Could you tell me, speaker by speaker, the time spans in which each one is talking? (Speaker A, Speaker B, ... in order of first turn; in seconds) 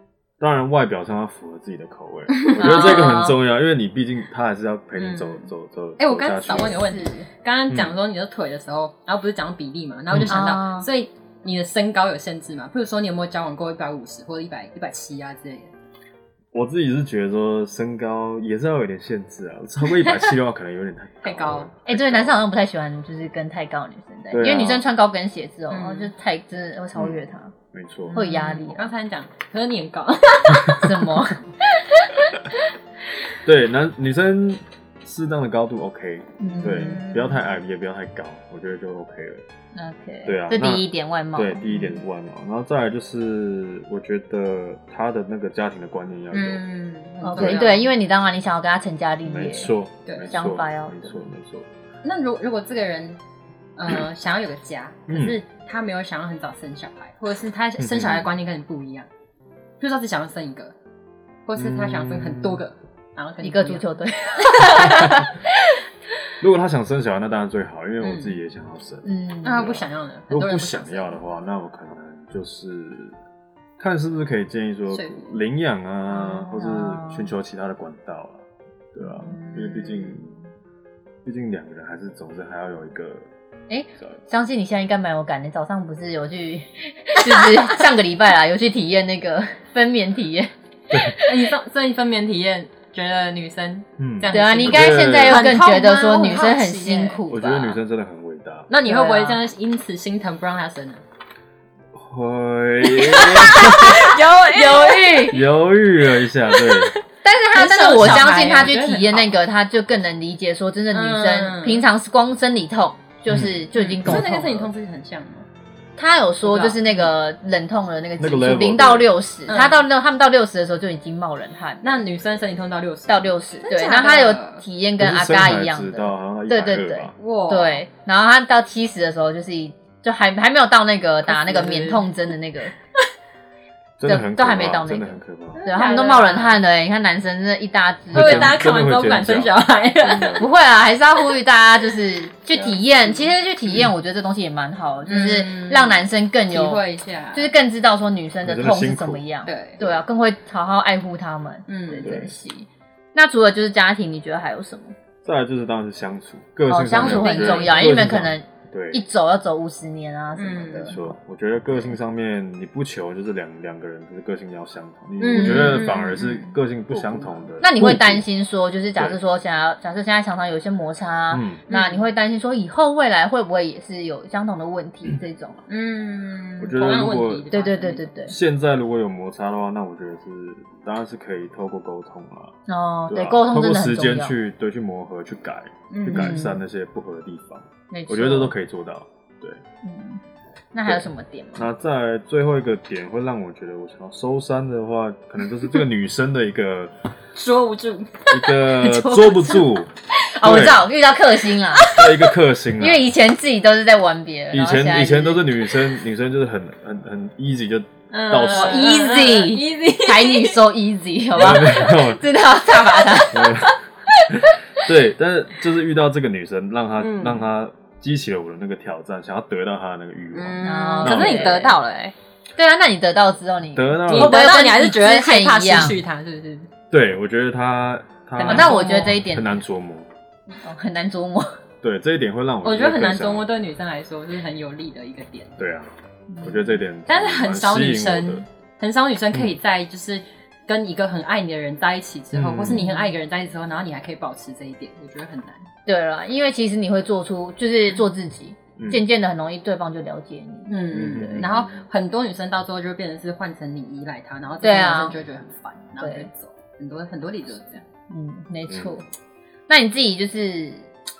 Speaker A: 0.4-6.8, 7.7-7.9, 10.1-10.4, 16.5-22.4, 24.3-24.9, 26.9-28.2, 33.4-39.4, 40.2-46.6, 47.4-47.7, 49.2-51.7, 55.1-55.4, 57.8-58.3, 61.5-62.6, 64.8-65.3, 66.4-73.2, 73.8-80.3, 81.2-83.3, 94.0-95.5, 97.3-98.7, 101.9-104.1, 105.2-106.9, 108.0-108.4, 113.3-114.3, 118.2-119.2, 125.0-127.1, 134.0-135.7, 138.1-140.5, 148.4-149.2, 152.0-152.3, 155.2-159.0, 160.8-168.2, 171.3-171.6, 176.6-177.5, 178.3-182.6, 183.1-189.6, 190.8-196.9, 198.3-200.9, 201.9-203.1, 204.5-208.9, 211.3-212.2, 213.3-221.8, 223.7-224.5, 226.9-230.1, 231.8-233.5, 235.6-238.4, 242.3-242.8, 248.8-249.0, 250.9-251.7
Speaker B: 2.4-3.3, 5.0-15.7, 21.2-21.7, 25.7-26.1, 28.0-31.2, 36.5-37.5, 46.3-47.9, 50.0-50.3, 52.0-53.2, 53.8-59.1, 59.8-60.7, 61.5-65.0, 68.0-68.4, 69.4-71.2, 74.9-75.4, 79.2-80.3, 87.3-87.7, 91.2-97.2, 98.7-101.0, 102.8-105.3, 106.5-107.0, 107.5-109.3, 110.9-111.9, 113.7-115.5, 116.4-117.1, 119.5-119.8, 121.8-124.6, 127.2-127.8, 131.2-132.2, 135.6-136.6, 138.1-140.4, 142.5-143.9, 145.0-147.5, 149.4-149.8, 151.7-152.1, 156.9-157.9, 160.3-161.0, 165.2-167.5, 171.7-172.0, 175.7-178.1, 185.9-186.4, 197.3-199.8, 201.5-202.3, 208.1-210.7, 217.0-217.5, 220.3-222.1, 224.1-226.7, 228.4-229.2, 232.6-235.6, 237.1-245.7, 250.7-257.8
Speaker C: 2.5-3.4, 6.5-7.3, 10.2-10.9, 21.9-27.5, 28.1-28.9, 30.6-32.5, 36.4-37.0, 39.7-42.0, 47.2-49.7, 50.3-51.3, 63.4-65.4, 69.0-69.8, 76.1-77.3, 79.0-79.4, 83.7-91.4, 94.3-97.8, 98.8-99.4, 103.5-105.4, 107.2-114.7, 116.0-121.8, 123.1-132.7, 134.0-138.8, 140.3-146.8, 147.3-154.9, 156.7-161.0, 165.3-165.9, 167.6-175.6, 177.5-178.3, 182.7-184.3, 186.1-186.6, 187.9-188.5, 189.8-190.2, 190.7-191.7, 200.2-201.9, 202.8-205.6, 208.4-213.7, 214.2-214.8, 220.6-221.8, 222.6-226.0, 228.4-229.6, 230.5-231.6, 236.3-236.8, 242.7-243.1, 245.8-251.5, 254.6-255.2, 256.0-256.3, 258.1-259.1, 259.7-260.9